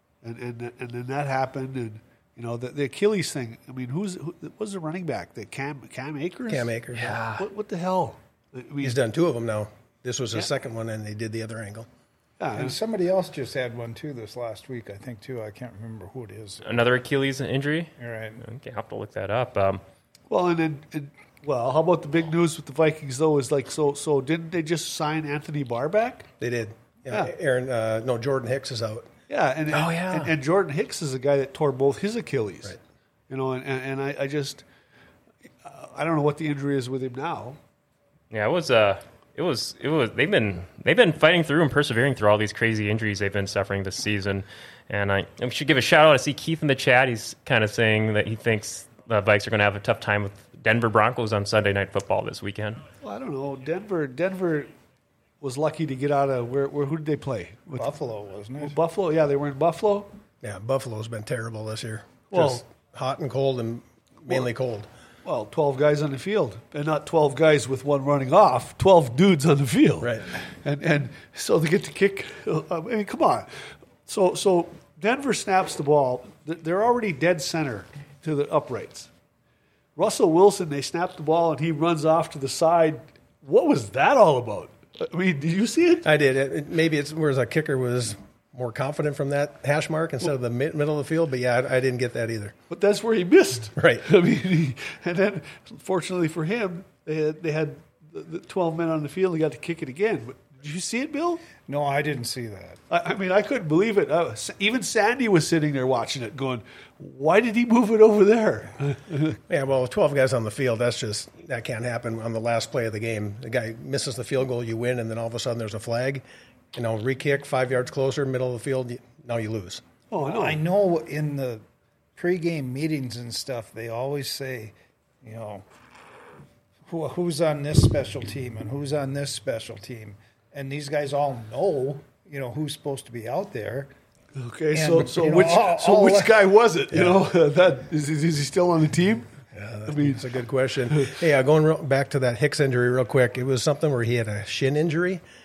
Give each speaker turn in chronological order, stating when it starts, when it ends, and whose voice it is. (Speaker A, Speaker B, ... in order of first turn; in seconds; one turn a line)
Speaker A: 0.2-9.0
Speaker B: 6.5-7.2
Speaker C: 7.0-7.5
Speaker B: 8.8-11.9
Speaker A: 12.4-12.8
Speaker D: 12.6-16.6
Speaker C: 16.6-19.8
Speaker D: 18.0-18.4
Speaker A: 20.3-26.3
Speaker B: 26.4-29.1
Speaker A: 29.3-32.8
Speaker C: 29.7-30.3
Speaker A: 33.3-34.6
Speaker A: 35.6-37.6
Speaker C: 38.3-52.8
Speaker A: 53.0-54.7
Speaker A: 55.4-57.9
Speaker D: 57.8-58.8
Speaker A: 58.6-60.1
Speaker B: 60.4-64.9
Speaker A: 62.3-62.6
Speaker A: 65.2-79.1
Speaker A: 80.0-86.1
Speaker B: 86.0-92.5
Speaker A: 92.7-101.4
Speaker B: 93.8-94.0
Speaker D: 101.7-102.8
Speaker A: 102.9-109.4
Speaker B: 109.5-119.8
Speaker A: 120.1-120.6
Speaker D: 120.2-121.6
Speaker D: 122.2-125.7
Speaker D: 126.9-133.9
Speaker A: 134.4-139.3
Speaker D: 134.7-136.5
Speaker B: 136.9-137.2
Speaker B: 139.6-145.2
Speaker A: 139.9-140.2
Speaker A: 140.9-141.2